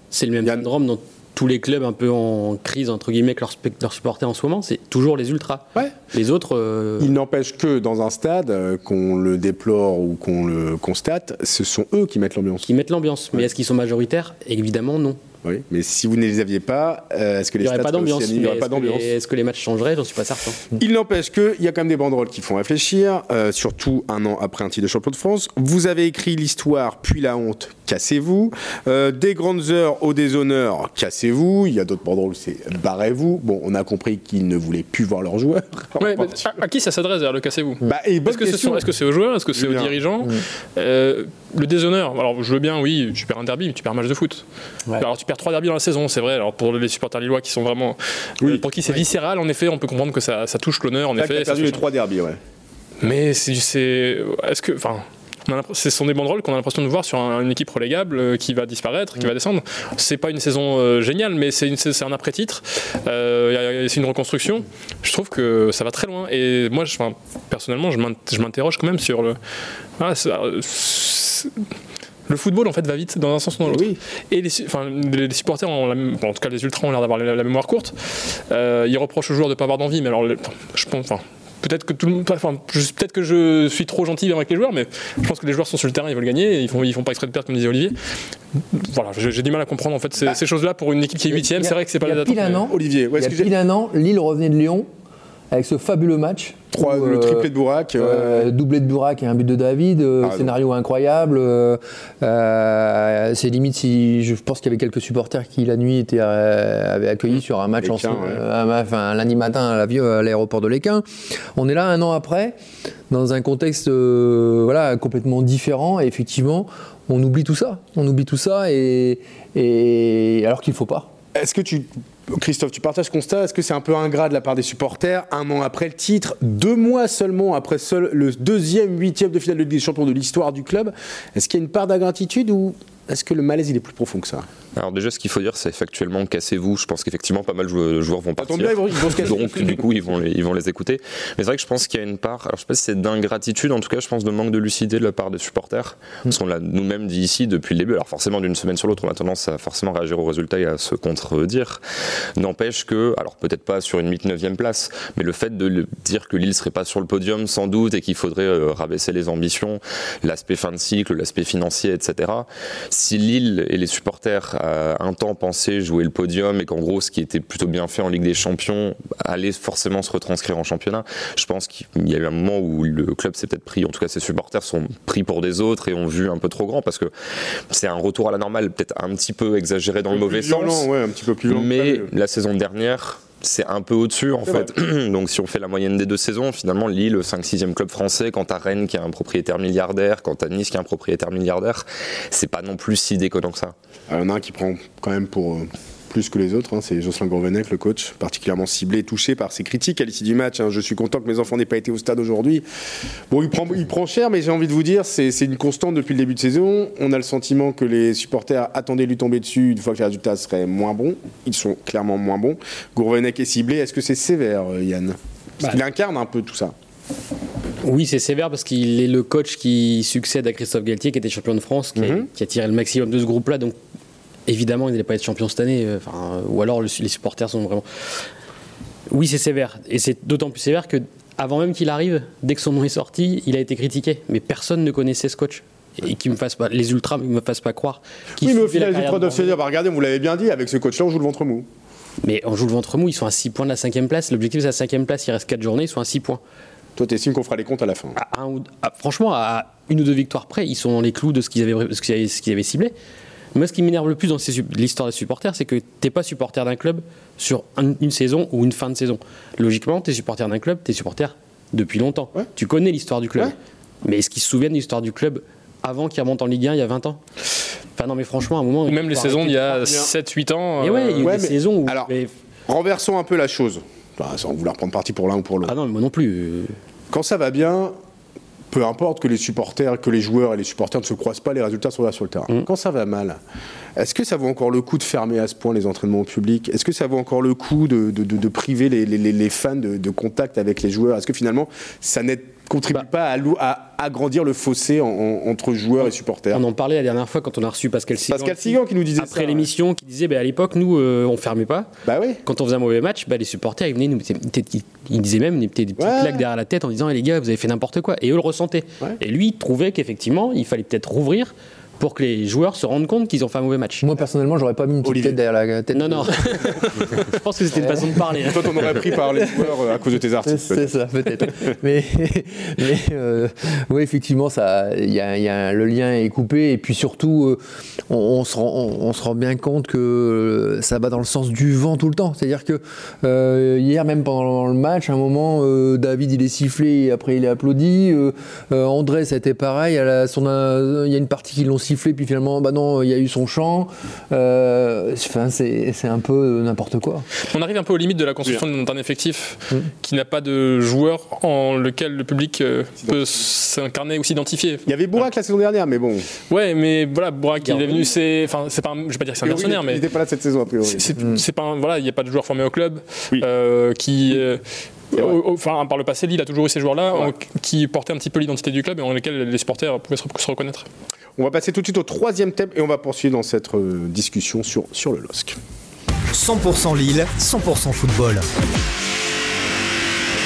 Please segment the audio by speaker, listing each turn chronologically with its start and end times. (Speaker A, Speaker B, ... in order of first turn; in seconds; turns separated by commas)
Speaker A: 0.1-7.1, Speaker B: 7.0-12.7, Speaker A: 12.6-15.2, Speaker B: 15.4-19.1, Speaker A: 17.6-20.6, Speaker B: 20.7-36.5, Speaker C: 36.0-44.4, Speaker B: 37.8-38.8, Speaker B: 39.5-39.9, Speaker C: 45.0-51.8, Speaker B: 48.4-49.0, Speaker B: 51.2-52.4, Speaker C: 53.0-69.4, Speaker C: 70.0-71.5, Speaker C: 72.3-87.9, Speaker B: 73.6-74.0, Speaker C: 88.7-92.7, Speaker D: 91.4-94.9, Speaker B: 92.7-93.5, Speaker D: 95.5-112.5, Speaker B: 96.7-98.5, Speaker B: 100.2-100.5, Speaker B: 107.8-108.4, Speaker D: 113.1-121.1, Speaker B: 121.3-134.5, Speaker E: 134.8-151.8, Speaker B: 138.4-139.9, Speaker E: 152.4-177.1, Speaker E: 177.7-180.9, Speaker B: 180.1-182.1, Speaker E: 181.5-193.7, Speaker B: 184.4-184.7, Speaker B: 194.1-202.6, Speaker B: 203.3-216.7, Speaker A: 217.8-223.8, Speaker B: 221.9-222.2, Speaker A: 224.5-228.2, Speaker A: 229.1-239.6, Speaker B: 238.4-241.7, Speaker A: 242.2-246.4, Speaker B: 247.0-248.2, Speaker A: 248.1-252.9, Speaker A: 253.5-267.2, Speaker A: 267.9-270.1, Speaker C: 268.9-271.3, Speaker A: 270.8-272.3, Speaker B: 271.2-272.1, Speaker B: 272.7-275.7, Speaker A: 275.6-276.7, Speaker B: 277.1-277.9, Speaker B: 278.7-283.4, Speaker B: 284.0-296.6, Speaker A: 296.5-301.9, Speaker B: 298.3-299.7, Speaker B: 302.0-302.4, Speaker A: 302.4-314.1, Speaker B: 306.0-306.4, Speaker D: 314.0-317.0, Speaker B: 315.0-315.4, Speaker A: 315.9-319.2, Speaker D: 317.8-318.2, Speaker B: 318.4-321.7, Speaker D: 320.4-347.3, Speaker C: 347.4-355.3, Speaker B: 354.9-356.3, Speaker C: 356.5-360.1, Speaker A: 357.6-358.0, Speaker B: 359.4-361.1, Speaker C: 360.8-370.9, Speaker B: 371.4-375.6, Speaker F: 376.3-378.5